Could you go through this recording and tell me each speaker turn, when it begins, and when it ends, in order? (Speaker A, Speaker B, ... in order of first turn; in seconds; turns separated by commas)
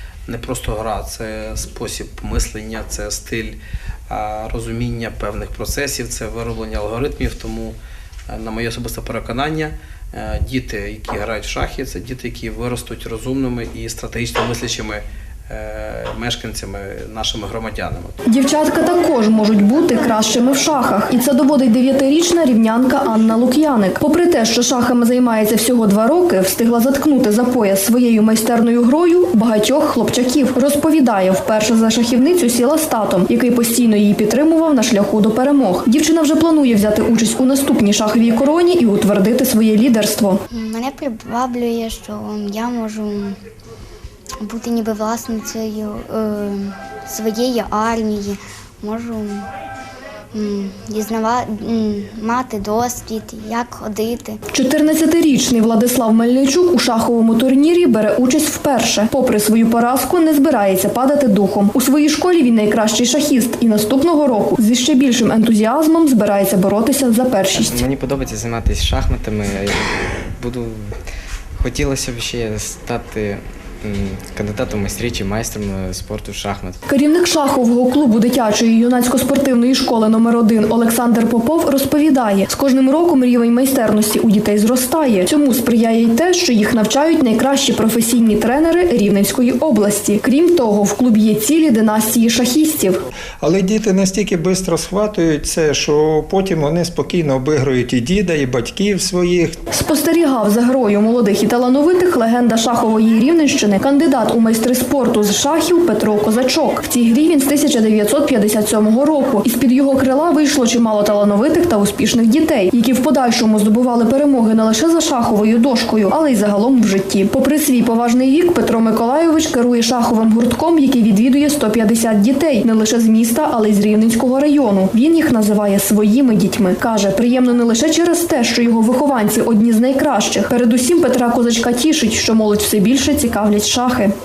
Speaker A: 0.3-3.6, Speaker A: 4.1-7.8, Speaker A: 8.3-18.1, Speaker B: 18.3-40.4, Speaker C: 40.5-43.4, Speaker C: 44.4-49.5, Speaker C: 50.3-54.4, Speaker B: 54.5-67.8, Speaker D: 67.5-70.9, Speaker D: 71.6-76.8, Speaker B: 76.9-93.0, Speaker E: 93.4-99.6, Speaker B: 99.7-134.1